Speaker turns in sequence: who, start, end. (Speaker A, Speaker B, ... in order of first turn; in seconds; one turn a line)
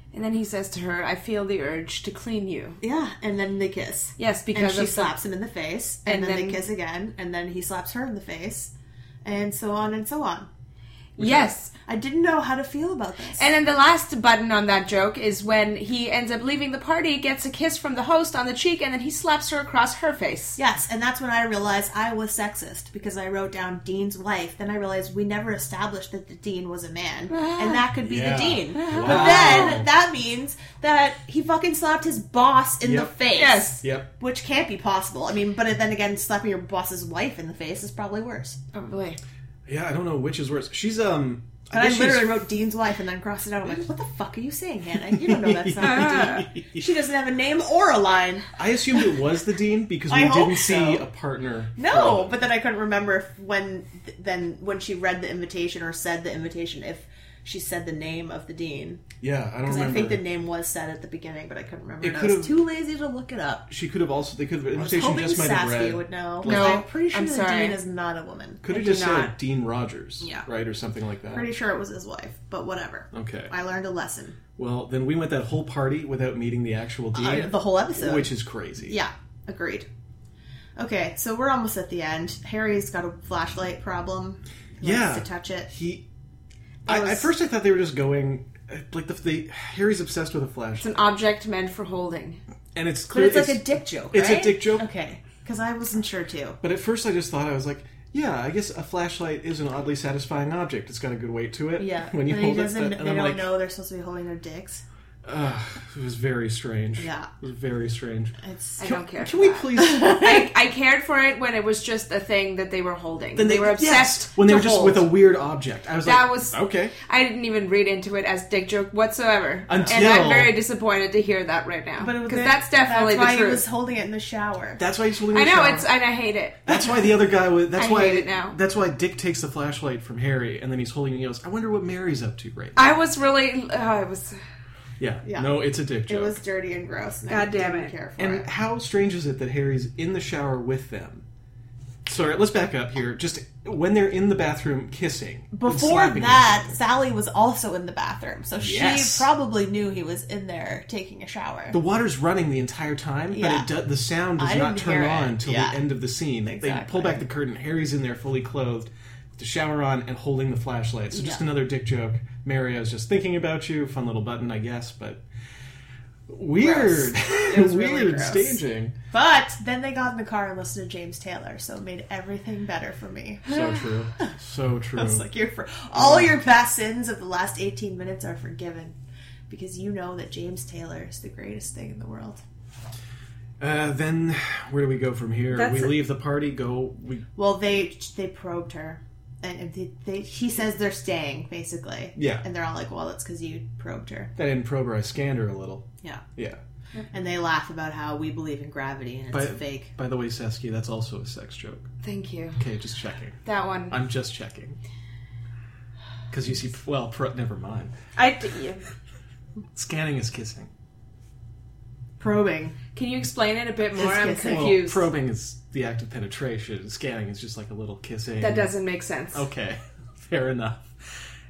Speaker A: 0.1-2.8
Speaker B: 2.8-8.7
Speaker A: 4.2-5.2
Speaker A: 6.1-6.6
Speaker B: 9.2-10.5
Speaker A: 11.2-11.7
Speaker C: 11.2-11.5
Speaker B: 11.9-13.5
Speaker A: 13.3-20.6
Speaker B: 20.6-38.6
Speaker A: 27.3-27.9
Speaker C: 28.0-29.9
Speaker A: 28.8-29.8
Speaker C: 32.8-33.2
Speaker A: 33.4-33.8
Speaker C: 33.8-34.1
Speaker A: 38.7-39.2
Speaker C: 39.7-42.5
Speaker B: 41.7-48.5
Speaker C: 45.0-46.9
Speaker A: 45.8-46.5
Speaker C: 48.6-52.4
Speaker B: 50.1-51.1
Speaker B: 51.8-59.0
Speaker C: 59.2-60.2
Speaker B: 59.6-63.6
Speaker C: 62.0-62.6
Speaker C: 63.7-66.9
Speaker B: 64.7-69.2
Speaker A: 66.4-67.8
Speaker C: 68.6-71.5
Speaker A: 68.7-69.3
Speaker B: 70.2-70.5
Speaker B: 71.3-74.4
Speaker C: 73.1-73.5
Speaker C: 74.6-79.0
Speaker B: 77.1-79.9
Speaker B: 80.8-85.7
Speaker C: 84.8-86.0
Speaker C: 86.9-91.0
Speaker B: 86.9-87.3
Speaker A: 90.8-92.4
Speaker C: 92.8-94.9
Speaker B: 93.1-96.6
Speaker C: 96.6-103.5
Speaker B: 101.8-104.8
Speaker C: 105.2-110.2
Speaker B: 107.0-107.3
Speaker B: 108.4-108.9
Speaker A: 108.8-115.1
Speaker B: 109.8-110.3
Speaker C: 113.4-117.0
Speaker A: 116.0-123.6
Speaker C: 119.7-120.6
Speaker B: 122.0-124.8
Speaker C: 124.8-125.9
Speaker A: 125.3-126.8
Speaker C: 126.7-132.9
Speaker A: 127.8-128.6
Speaker A: 132.8-134.4
Speaker C: 135.0-136.4
Speaker B: 135.2-138.5
Speaker A: 137.3-137.9
Speaker C: 138.2-141.2
Speaker C: 142.1-146.8
Speaker B: 145.5-151.8
Speaker C: 148.6-149.3
Speaker C: 151.7-165.2
Speaker B: 153.3-153.7
Speaker B: 154.4-155.8
Speaker B: 156.4-157.3
Speaker B: 161.1-161.5
Speaker C: 166.3-169.0
Speaker B: 166.6-173.5
Speaker C: 173.5-175.3
Speaker B: 174.9-179.0
Speaker C: 175.9-176.3
Speaker B: 179.5-182.4
Speaker C: 183.6-187.3
Speaker A: 185.5-186.0
Speaker B: 187.4-194.3
Speaker C: 192.2-192.4
Speaker C: 194.4-196.6
Speaker B: 197.1-199.9
Speaker C: 199.3-201.9
Speaker A: 202.0-202.6
Speaker C: 202.6-204.8
Speaker A: 203.4-204.0
Speaker C: 206.3-207.9
Speaker A: 208.2-208.9
Speaker C: 209.7-210.7
Speaker B: 212.2-212.8
Speaker A: 212.9-215.1
Speaker B: 214.0-214.8
Speaker C: 214.5-218.7
Speaker A: 218.4-219.5
Speaker C: 219.3-221.2